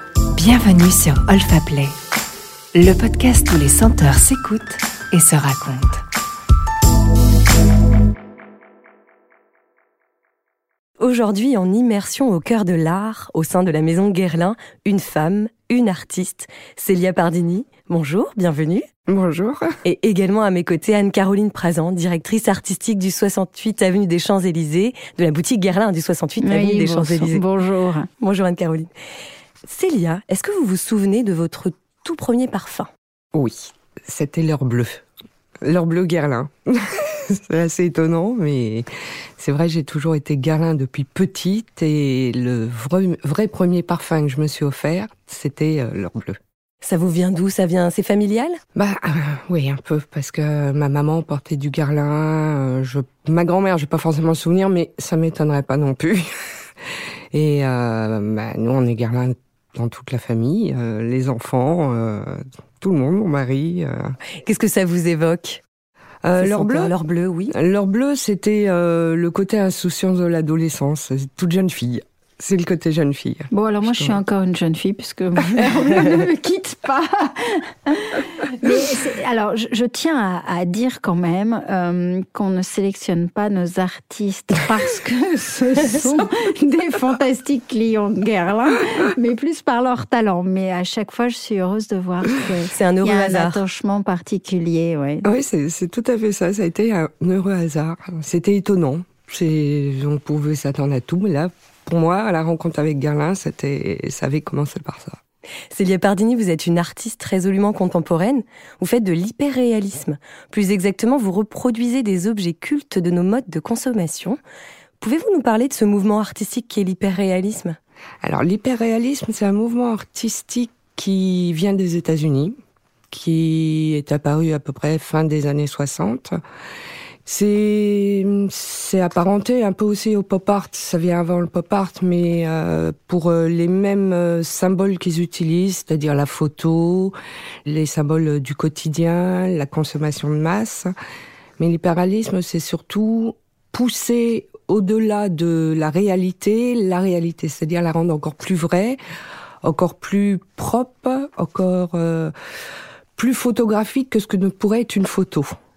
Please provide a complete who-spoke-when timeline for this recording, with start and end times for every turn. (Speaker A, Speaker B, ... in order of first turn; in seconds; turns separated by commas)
Speaker A: 0.3-1.9, Speaker A: 2.7-6.0, Speaker B: 11.0-18.9, Speaker C: 19.1-19.7, Speaker B: 19.9-27.4, Speaker D: 26.4-28.1, Speaker B: 28.2-28.9, Speaker B: 29.7-32.9, Speaker C: 33.3-35.0, Speaker C: 35.6-38.9, Speaker C: 39.4-46.4, Speaker B: 46.8-48.6, Speaker C: 48.8-56.3, Speaker C: 57.3-64.2, Speaker B: 64.4-65.6, Speaker C: 66.2-67.0, Speaker B: 66.4-67.5, Speaker C: 67.5-74.2, Speaker D: 73.5-95.3, Speaker B: 92.7-93.6, Speaker C: 95.2-105.2, Speaker B: 105.7-114.4, Speaker B: 115.0-117.8, Speaker C: 118.2-122.6, Speaker C: 123.1-126.4, Speaker C: 127.3-137.2, Speaker C: 137.7-140.9, Speaker C: 141.6-149.0, Speaker C: 149.6-152.3, Speaker C: 153.2-155.5